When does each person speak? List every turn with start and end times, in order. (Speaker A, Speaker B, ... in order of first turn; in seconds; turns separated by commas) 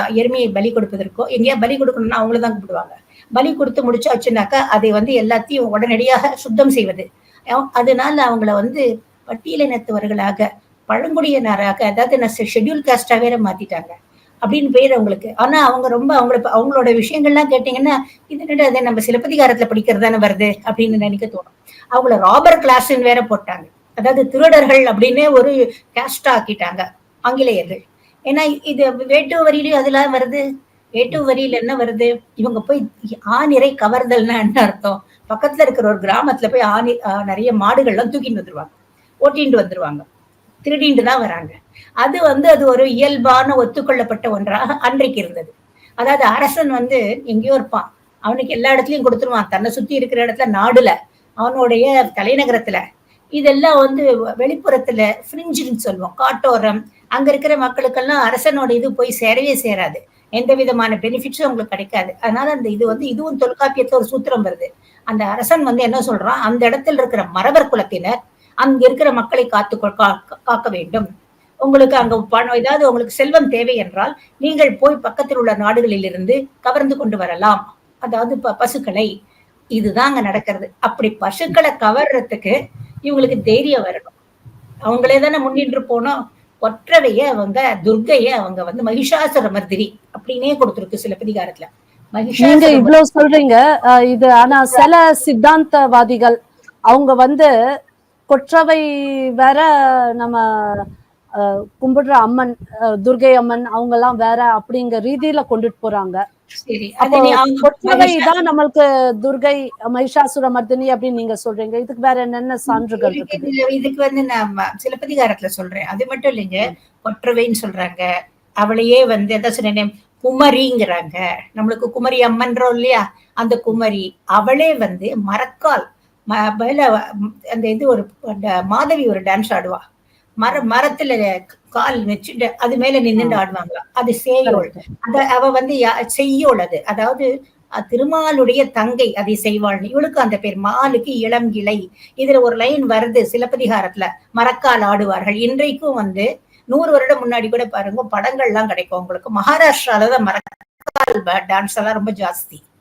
Speaker A: 0.2-30.4, Speaker A: 31.0-40.0, Speaker A: 40.6-52.8, Speaker A: 53.4-71.1, Speaker A: 71.6-79.1, Speaker A: 79.8-82.5, Speaker A: 83.1-84.2, Speaker A: 84.9-93.0, Speaker B: 92.4-96.4, Speaker B: 96.9-97.5, Speaker B: 98.3-98.8, Speaker B: 99.4-106.2, Speaker A: 106.7-108.3, Speaker B: 107.0-113.5, Speaker A: 112.7-118.0, Speaker A: 118.6-129.8, Speaker A: 130.4-131.2, Speaker A: 131.7-137.3, Speaker B: 134.5-134.8, Speaker A: 137.8-152.6